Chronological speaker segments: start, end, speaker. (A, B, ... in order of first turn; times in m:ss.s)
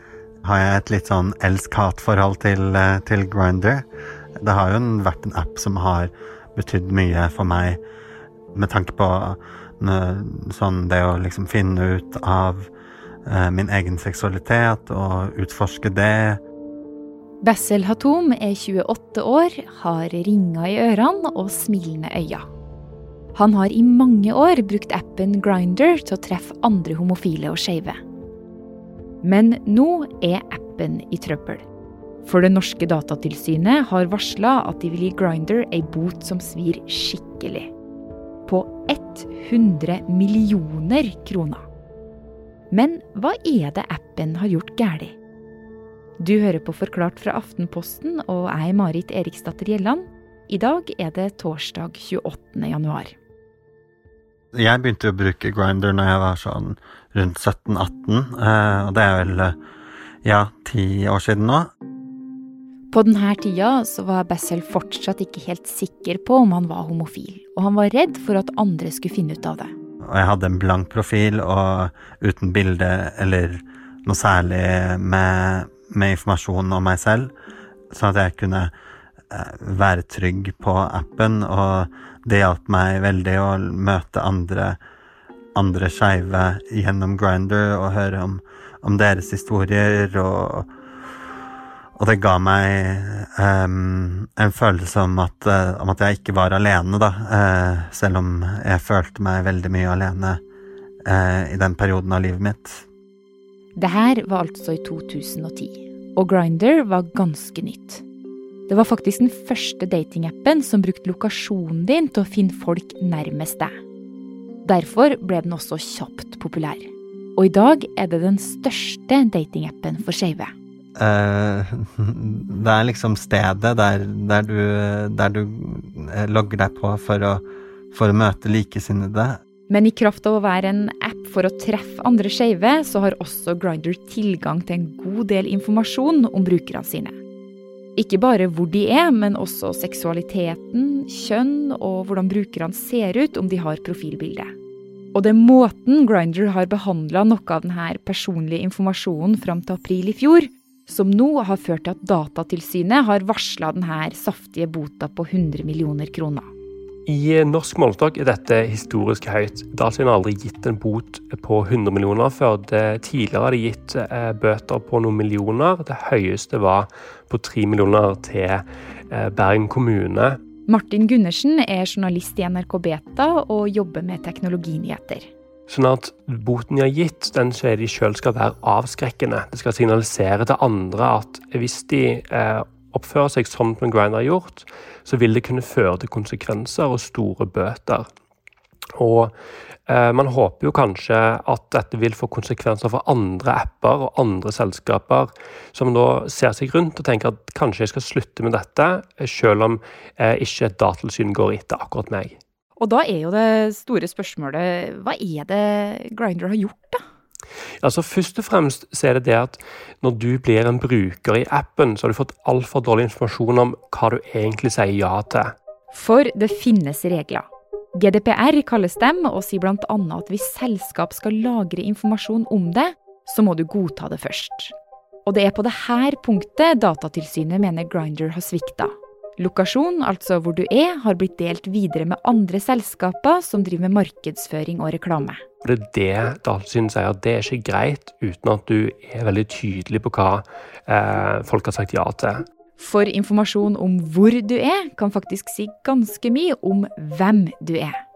0:00.4-0:03.8 A
0:04.4-0:07.8 A
0:08.5-0:12.7 A
0:13.3-0:16.4 A
0:17.4-0:22.4 B
0:23.3-0:28.0 B
0:29.2-0:31.6 B
0:32.2-0:37.7 B
0:38.4-0:41.6 B
0:42.7-0:45.1 B
0:46.2-0:53.1 B
0:54.5-0:59.6 A
1:00.2-1:01.7 A
1:02.9-1:09.7 B
1:10.1-1:17.3 A
1:17.9-1:18.7 A
1:19.3-1:24.8 A
1:25.5-1:30.7 A
1:32.0-1:40.4 A
1:41.0-1:42.8 A
1:43.8-1:48.0 B
1:48.7-1:53.7 B
1:54.6-2:00.5 B
2:01.0-2:09.4 A
2:09.7-2:17.2 B
2:18.0-2:24.5 B
2:25.1-2:36.5 B
2:37.1-2:50.4 C
2:50.7-2:55.3 B
2:55.7-3:08.1 C
3:09.0-3:09.3 C
3:09.9-3:22.4 C
3:22.8-3:27.0 B
3:27.8-3:35.5 C
3:35.9-3:44.7 B
3:45.2-3:55.4 B
3:55.6-4:02.4 C
4:02.8-4:07.9 B